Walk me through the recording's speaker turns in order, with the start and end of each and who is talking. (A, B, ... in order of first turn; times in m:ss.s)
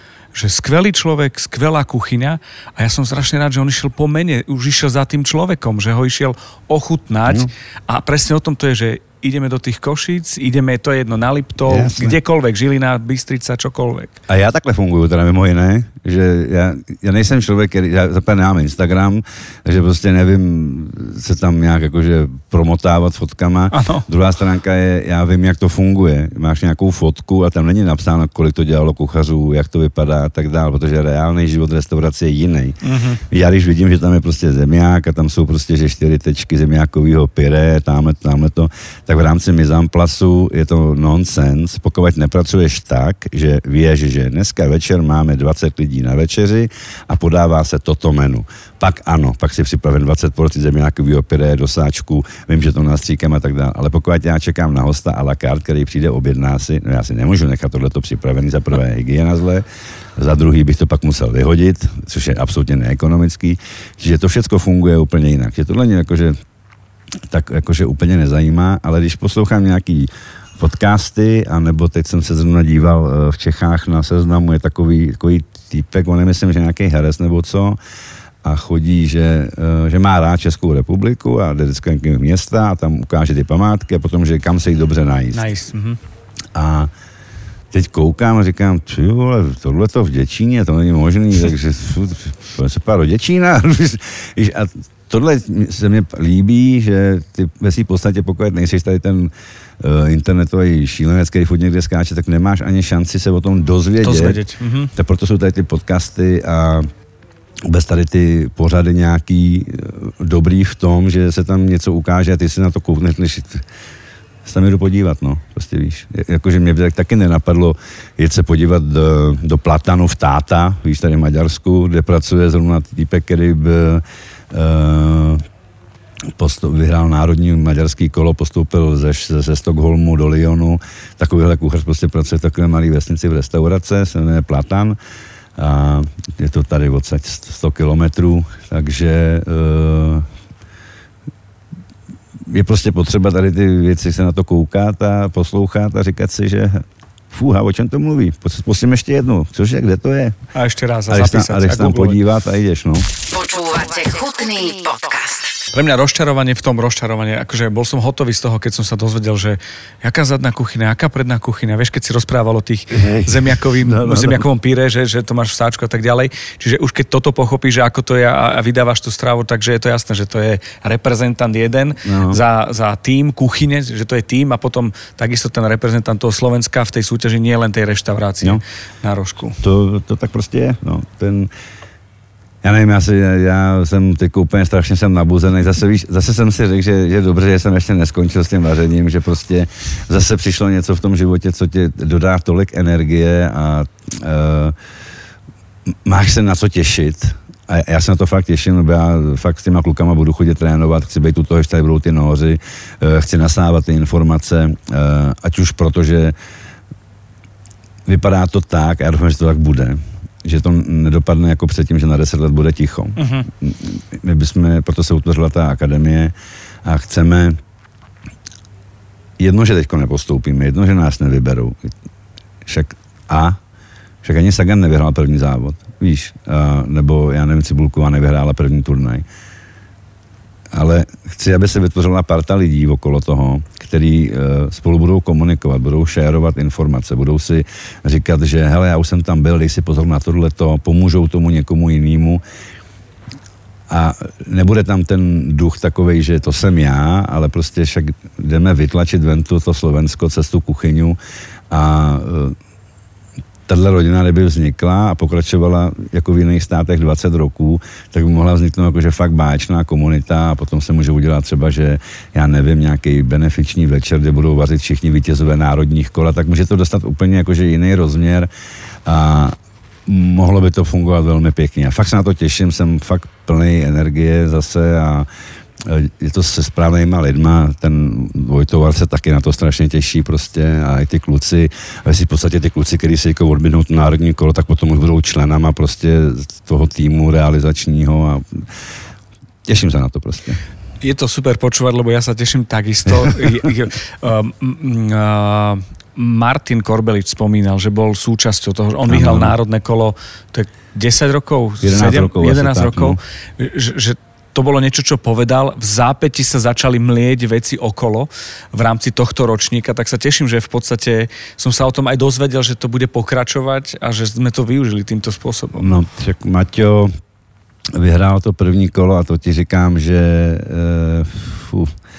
0:00.3-0:14.2 A
0:11.7-0:12.2 B
0:14.3-0:32.8 B
0:23.7-0:24.1 A
0:32.8-0:33.2 A
0:33.3-0:59.6 B
1:00.2-1:06.4 B
1:07.3-1:17.8 B
1:18.4-1:25.4 B
1:25.3-1:26.0 A
1:26.5-1:26.9 B
1:27.7-1:44.4 B
1:44.0-1:44.9 A
1:45.0-1:46.9 B
1:47.7-1:53.6 B
1:54.4-2:05.5 B
2:06.3-2:15.0 B
2:15.6-2:20.3 B
2:22.5-2:30.4 B
2:30.5-2:32.2 A
2:31.1-2:33.1 B
2:33.3-2:35.6 C
2:35.7-2:59.6 A
2:42.9-2:44.5 B
2:52.0-2:52.4 B
2:59.6-3:01.5 B
3:02.6-3:14.8 B
3:16.0-3:26.4 B
3:28.1-3:37.6 B
3:33.2-3:33.5 A
3:39.4-3:41.9 B
3:42.6-3:43.6 B
3:44.2-3:49.3 B
3:50.7-4:02.4 B
4:03.9-4:11.2 B
4:11.7-4:12.6 B
4:13.7-4:28.5 B
4:29.0-4:35.3 B
4:35.8-4:48.7 B
4:49.6-4:50.6 B
4:51.0-5:15.9 A
4:53.1-4:53.4 B
4:59.1-4:59.6 B
5:01.8-5:03.2 B
5:15.8-5:17.1 B
5:17.9-5:21.9 B